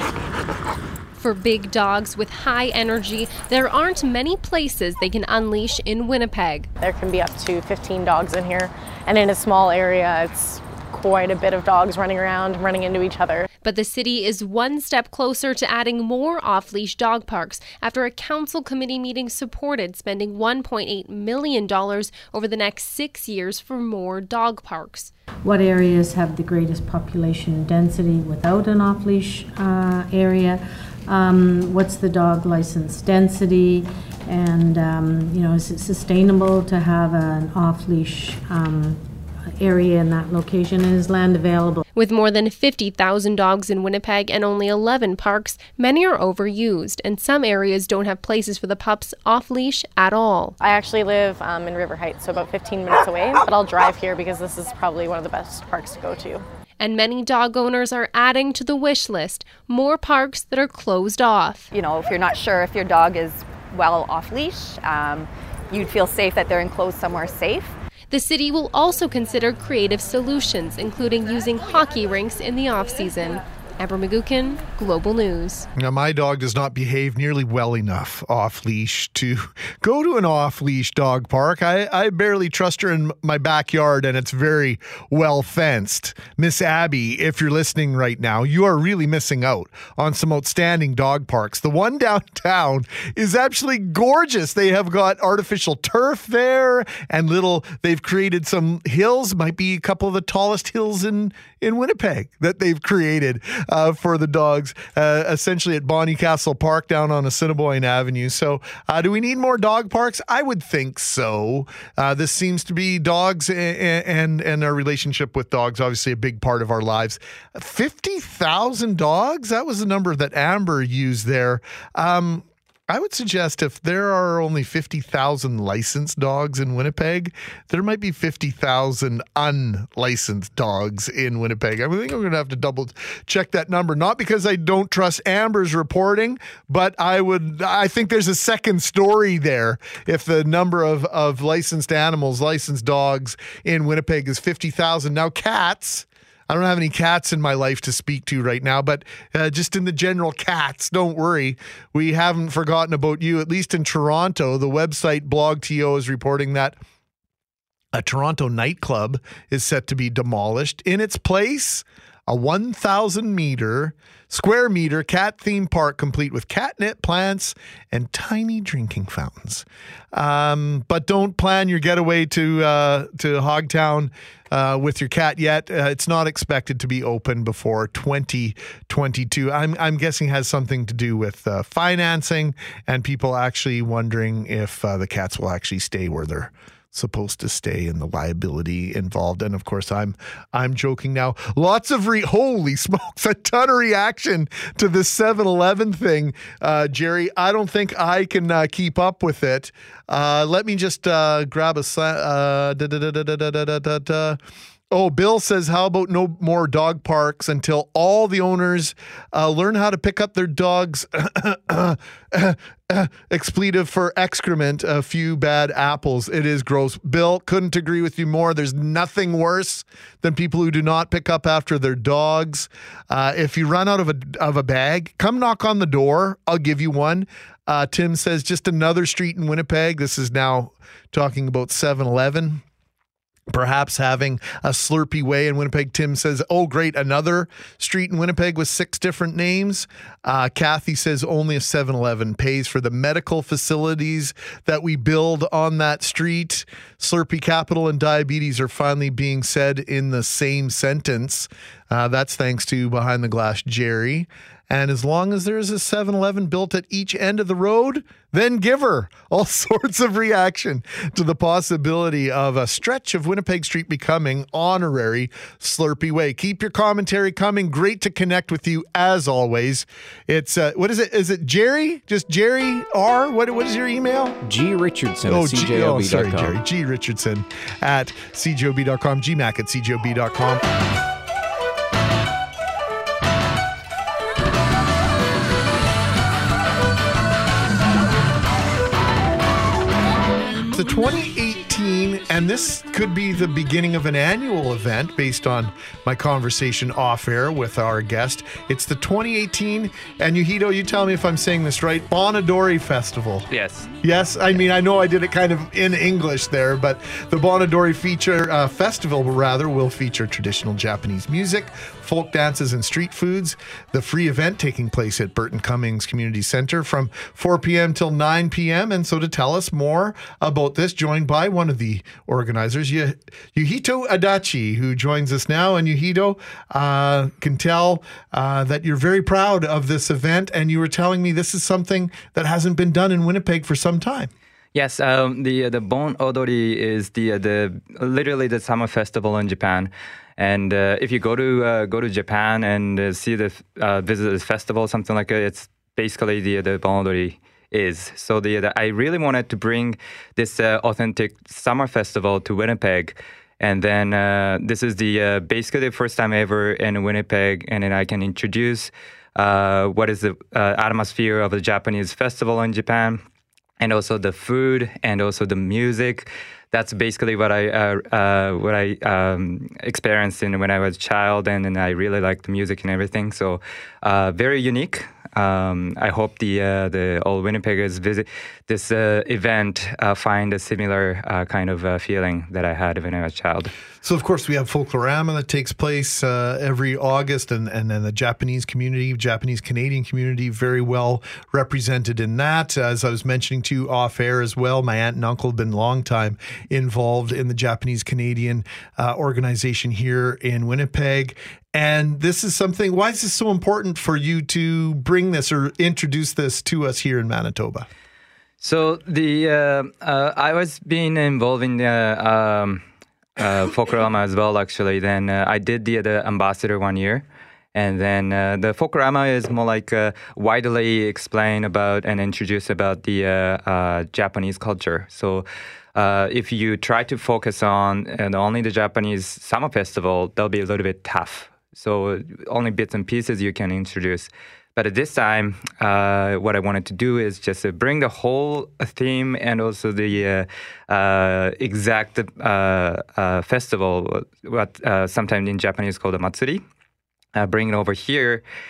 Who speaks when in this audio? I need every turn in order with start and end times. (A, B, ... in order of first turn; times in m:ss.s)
0:01.2-0:06.7 A
0:06.8-0:13.5 B
0:13.6-0:25.1 A
0:25.4-0:39.0 C
0:39.6-0:41.8 C
0:42.0-0:50.6 A
0:50.6-0:56.4 B
0:56.8-1:01.7 A
1:01.7-1:07.7 D
1:08.1-1:15.7 A
1:15.8-2:36.8 E
2:37.9-3:24.4 E
3:24.9-3:52.6 E
3:53.5-4:34.4 E
4:34.4-4:36.6 F
4:35.2-4:40.6 E
4:50.6-5:03.5 E
5:03.5-5:03.9 G
5:04.0-5:34.3 E
5:34.7-6:03.2 G
6:03.8-6:23.7 G
6:24.0-6:47.9 E
6:48.6-6:52.8 G
6:53.4-7:26.6 G
7:27.3-7:28.4 G